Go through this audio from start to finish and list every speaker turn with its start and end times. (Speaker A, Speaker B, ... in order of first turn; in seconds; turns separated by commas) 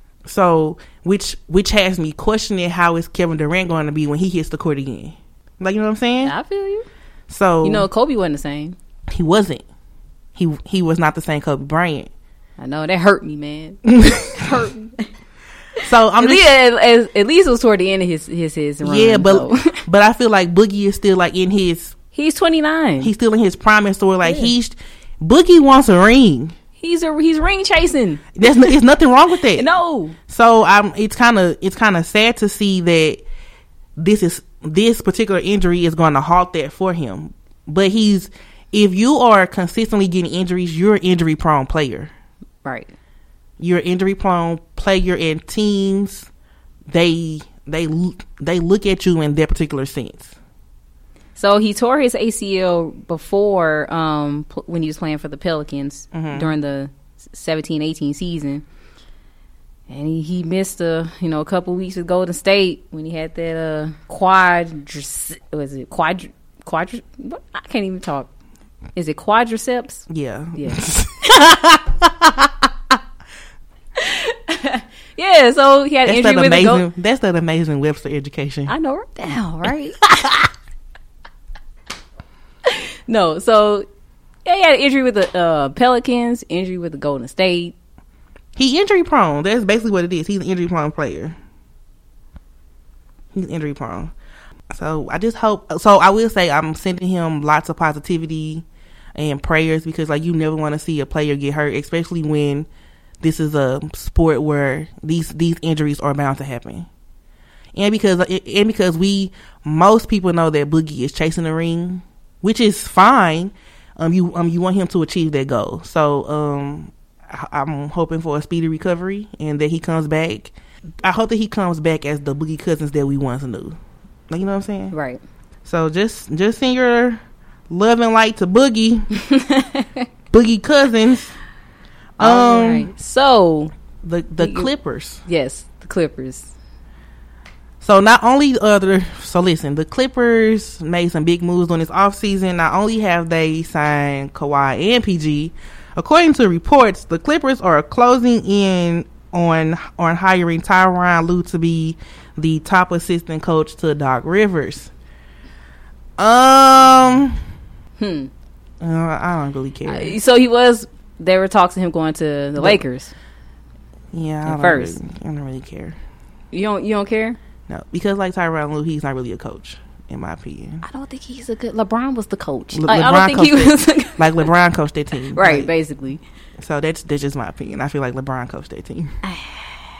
Speaker A: 0.2-6.3, Speaker B: 6.2-6.8, Speaker A: 7.3-7.9, Speaker B: 7.6-8.8, Speaker A: 9.1-9.6, Speaker A: 10.3-12.1, Speaker B: 12.6-15.1, Speaker A: 13.9-14.5, Speaker A: 15.8-16.5, Speaker B: 15.8-19.8, Speaker A: 18.8-21.9, Speaker B: 22.1-23.1, Speaker A: 23.0-26.5, Speaker B: 24.2-24.5, Speaker B: 26.8-28.7, Speaker A: 28.4-29.7, Speaker B: 29.5-30.2, Speaker A: 30.3-33.2, Speaker A: 34.0-42.1, Speaker B: 42.6-42.9, Speaker A: 43.6-46.3, Speaker A: 46.9-50.3, Speaker B: 51.4-58.6, Speaker A: 56.1-56.5, Speaker B: 59.9-68.3, Speaker B: 69.0-70.8, Speaker A: 70.1-72.7, Speaker B: 74.0-76.8, Speaker A: 76.0-78.7, Speaker B: 78.7-80.0, Speaker A: 80.1-80.3, Speaker B: 82.7-83.8, Speaker B: 84.5-87.7, Speaker A: 88.5-91.3, Speaker A: 93.3-94.1, Speaker A: 94.7-98.6, Speaker A: 99.2-102.7, Speaker A: 103.2-106.9, Speaker A: 107.7-123.8, Speaker A: 124.3-124.9, Speaker B: 124.9-125.2, Speaker A: 125.6-129.1, Speaker B: 129.1-130.1, Speaker A: 130.3-131.3, Speaker A: 132.2-132.9, Speaker B: 132.2-133.7, Speaker A: 134.0-135.2, Speaker B: 134.4-134.7, Speaker B: 135.2-136.5, Speaker A: 137.8-154.9, Speaker A: 156.2-157.4, Speaker B: 158.0-158.3, Speaker A: 158.8-160.2, Speaker B: 159.8-163.1, Speaker A: 162.6-162.8, Speaker A: 164.1-166.0, Speaker B: 164.4-165.0, Speaker B: 166.5-167.4, Speaker A: 167.7-170.8, Speaker B: 170.8-174.5, Speaker A: 172.7-175.7, Speaker B: 175.3-176.2, Speaker A: 176.6-179.1, Speaker B: 179.2-179.7